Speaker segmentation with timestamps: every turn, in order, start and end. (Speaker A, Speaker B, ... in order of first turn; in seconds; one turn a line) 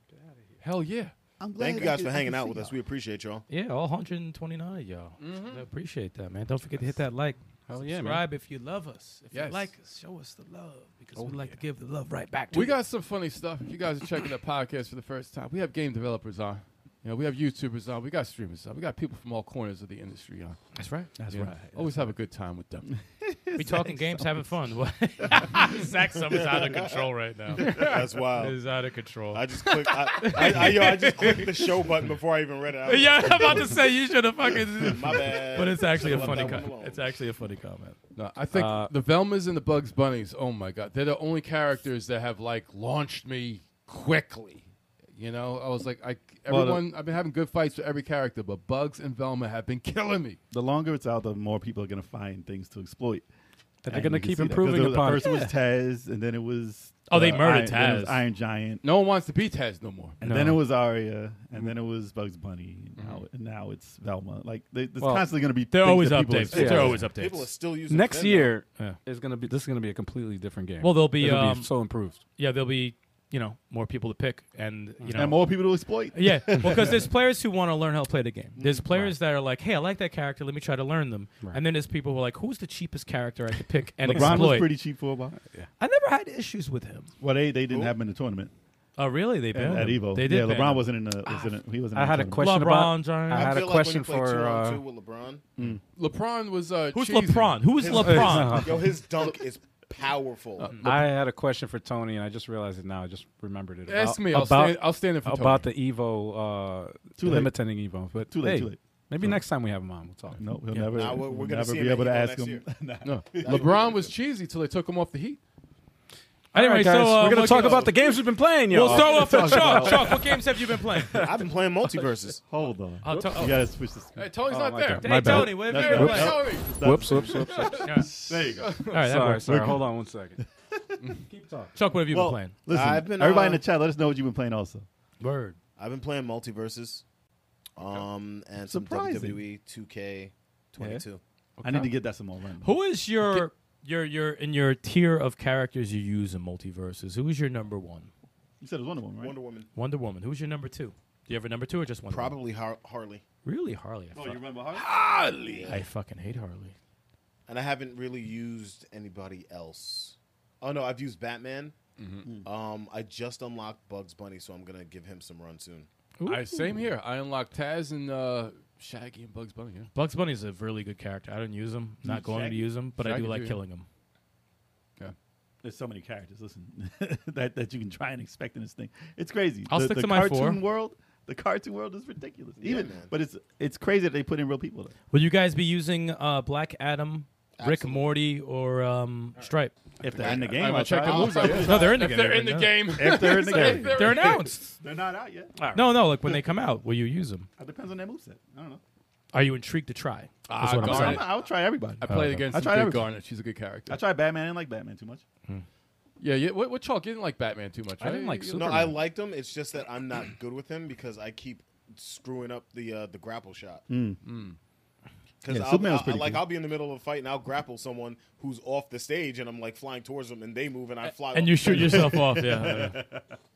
Speaker A: 0.1-0.5
Speaker B: 0.6-1.1
Speaker C: 1.4-2.8
Speaker D: 1.6-3.5
Speaker E: 3.5-12.8
Speaker B: 5.2-5.6
Speaker A: 7.7-8.3
Speaker B: 9.3-9.7
Speaker A: 11.2-11.6
Speaker B: 12.5-20.7
Speaker E: 20.8-21.4
Speaker C: 21.2-22.1
Speaker B: 21.3-22.9
Speaker C: 23.1-24.5
Speaker E: 23.6-31.9
Speaker D: 26.3-28.6
Speaker D: 29.3-34.2
Speaker E: 32.8-38.0
Speaker D: 34.8-37.2
Speaker C: 36.1-36.6
Speaker B: 38.1-44.6
Speaker A: 38.5-38.9
Speaker B: 45.2-50.4
Speaker C: 46.5-46.9
Speaker C: 50.5-53.2
Speaker A: 53.8-55.5
Speaker C: 53.9-58.8
Speaker E: 55.2-55.5
Speaker E: 57.1-58.2
Speaker B: 58.8-60.2
Speaker E: 60.2-60.6
Speaker C: 60.2-67.0
Speaker B: 63.0-63.2
Speaker A: 65.0-65.3
Speaker E: 65.7-67.5
Speaker A: 66.5-67.1
Speaker D: 66.5-68.6
Speaker A: 67.9-72.2
Speaker E: 68.7-69.6
Speaker E: 70.8-71.7
Speaker E: 72.4-84.8
Speaker A: 75.0-75.3
Speaker C: 75.2-77.1
Speaker C: 78.6-79.1
Speaker A: 84.0-84.6
Speaker C: 84.0-85.3
Speaker E: 85.8-87.1
Speaker C: 87.2-88.5
Speaker D: 87.7-87.9
Speaker E: 89.0-91.5
Speaker C: 89.5-92.5
Speaker A: 89.6-90.0
Speaker A: 91.9-94.8
Speaker E: 92.3-93.7
Speaker D: 93.3-95.4
Speaker B: 96.0-97.7
Speaker E: 96.9-98.8
Speaker D: 97.8-100.8
Speaker A: 97.8-99.0
Speaker B: 100.6-101.1
Speaker A: 100.8-110.9
Speaker B: 103.9-105.7
Speaker C: 107.2-107.6
Speaker C: 108.3-109.4
Speaker C: 110.4-114.1
Speaker D: 110.9-112.7
Speaker B: 113.0-115.4
Speaker D: 113.4-113.9
Speaker A: 116.5-121.4
Speaker E: 116.5-118.1
Speaker E: 118.7-121.3
Speaker B: 118.8-120.2
Speaker D: 121.2-122.4
Speaker C: 122.5-124.3
Speaker E: 123.0-123.7
Speaker B: 124.2-129.1
Speaker A: 124.5-128.1
Speaker E: 125.0-126.5
Speaker C: 125.5-131.0
Speaker E: 127.7-128.2
Speaker E: 128.8-129.6
Speaker A: 128.9-130.4
Speaker A: 131.3-131.8
Speaker E: 131.8-132.6
Speaker C: 132.1-134.9
Speaker D: 132.7-133.6
Speaker E: 135.2-135.6
Speaker D: 135.8-137.0
Speaker D: 137.8-141.2
Speaker B: 137.8-138.1
Speaker C: 138.7-139.4
Speaker E: 141.6-141.9
Speaker C: 141.6-142.8
Speaker E: 142.6-148.1
Speaker C: 148.6-149.3
Speaker D: 149.2-149.7
Speaker E: 149.8-152.4
Speaker D: 152.1-153.2
Speaker E: 153.4-154.4
Speaker C: 154.1-154.9
Speaker B: 154.7-155.7
Speaker D: 155.4-155.9
Speaker E: 155.7-156.8
Speaker D: 157.5-161.8
Speaker B: 162.0-162.3
Speaker D: 162.4-165.9
Speaker E: 166.2-166.7
Speaker B: 166.2-169.9
Speaker E: 169.9-173.9
Speaker C: 172.0-172.7
Speaker B: 173.0-173.6
Speaker C: 175.6-184.9
Speaker E: 179.7-180.6
Speaker D: 182.6-183.1
Speaker E: 185.1-189.8
Speaker D: 187.6-188.2
Speaker C: 190.0-191.9
Speaker B: 190.1-194.6
Speaker D: 190.1-192.0
Speaker E: 191.5-194.8
Speaker C: 192.9-195.5
Speaker A: 195.6-196.2
Speaker E: 195.7-197.5
Speaker C: 197.6-198.8
Speaker E: 199.3-201.3
Speaker B: 200.5-201.3
Speaker C: 200.8-203.1
Speaker B: 202.0-204.0
Speaker E: 202.1-202.5
Speaker C: 203.9-205.2
Speaker B: 206.2-209.0
Speaker A: 208.0-209.0
Speaker D: 208.6-213.9
Speaker C: 213.9-214.2
Speaker B: 214.2-214.6
Speaker D: 215.4-222.6
Speaker C: 215.5-216.4
Speaker E: 221.2-223.0
Speaker C: 221.7-223.3